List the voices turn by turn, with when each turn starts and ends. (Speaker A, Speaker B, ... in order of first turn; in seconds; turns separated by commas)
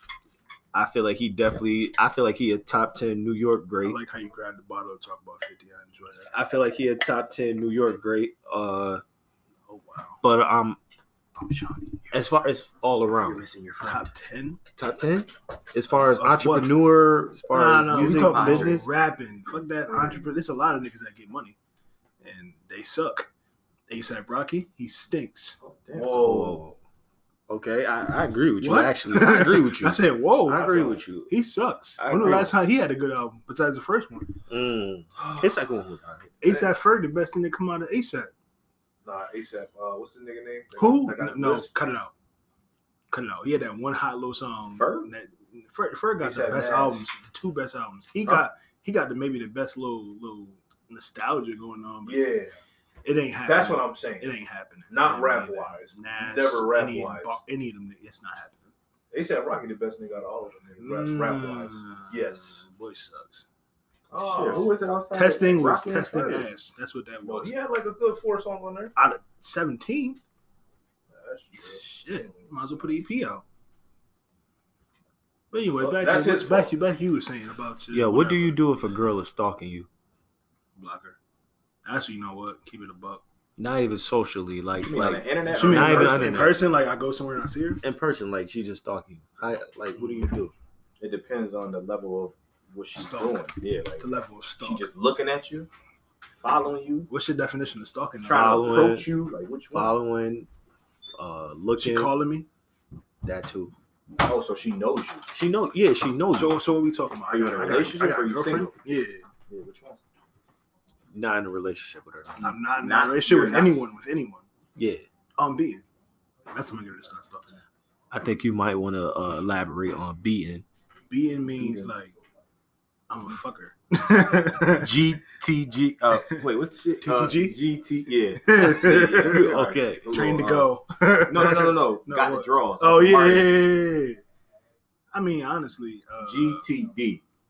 Speaker A: 0.7-4.0, Speaker B: 3.8-6.3, Speaker A: 6.3-9.0, Speaker B: 9.7-10.2, Speaker A: 10.2-10.8, Speaker C: 11.4-11.9, Speaker A: 12.1-13.9, Speaker B: 13.8-14.6, Speaker A: 14.8-18.9, Speaker B: 15.9-16.8, Speaker B: 17.4-21.6, Speaker C: 17.9-18.9, Speaker C: 19.9-20.3, Speaker B: 22.2-23.3, Speaker B: 23.9-25.6, Speaker C: 25.6-26.3, Speaker D: 25.9-26.6, Speaker A: 26.1-26.8, Speaker A: 27.5-31.3, Speaker B: 28.6-34.3, Speaker A: 32.0-32.5, Speaker A: 34.5-36.3, Speaker B: 36.4-38.3, Speaker D: 39.0-41.7, Speaker B: 40.8-42.1, Speaker B: 43.1-52.3, Speaker C: 44.7-45.1, Speaker D: 46.2-47.1, Speaker D: 52.0-52.5, Speaker B: 53.0-58.7, Speaker D: 53.4-54.3, Speaker D: 54.9-57.4, Speaker D: 59.1-62.6, Speaker B: 60.8-63.4, Speaker D: 64.1-64.7, Speaker C: 64.1-66.5, Speaker B: 65.1-67.5, Speaker D: 67.2-68.9, Speaker B: 69.0-70.2, Speaker D: 71.1-72.5, Speaker B: 71.5-73.4, Speaker B: 75.5-78.6, Speaker D: 75.8-76.7, Speaker A: 77.9-79.9, Speaker B: 80.8-81.2, Speaker B: 81.8-83.2, Speaker A: 83.6-86.5, Speaker C: 84.8-86.6, Speaker B: 85.5-87.8, Speaker A: 87.8-90.5, Speaker C: 91.0-95.7, Speaker B: 92.9-93.5, Speaker B: 94.0-94.9, Speaker C: 96.4-97.1, Speaker B: 97.1-98.7, Speaker C: 98.2-99.9, Speaker A: 98.3-99.1, Speaker A: 99.7-100.5, Speaker A: 101.2-102.1, Speaker B: 101.8-102.5, Speaker A: 103.2-103.7, Speaker C: 104.2-105.3, Speaker A: 105.3-106.5, Speaker B: 106.3-109.2, Speaker C: 107.3-108.8, Speaker C: 109.5-110.0, Speaker A: 111.1-112.5, Speaker B: 112.4-114.5, Speaker C: 112.4-113.7, Speaker A: 114.8-115.0, Speaker B: 115.4-115.8, Speaker B: 116.5-117.6, Speaker A: 118.1-120.6, Speaker B: 121.1-122.1, Speaker C: 121.6-121.9, Speaker B: 123.1-124.9, Speaker C: 124.8-130.7, Speaker B: 127.0-127.6, Speaker B: 128.4-129.6, Speaker A: 129.2-130.1, Speaker B: 130.1-134.2, Speaker C: 131.3-133.7, Speaker B: 135.1-136.6, Speaker C: 136.2-137.2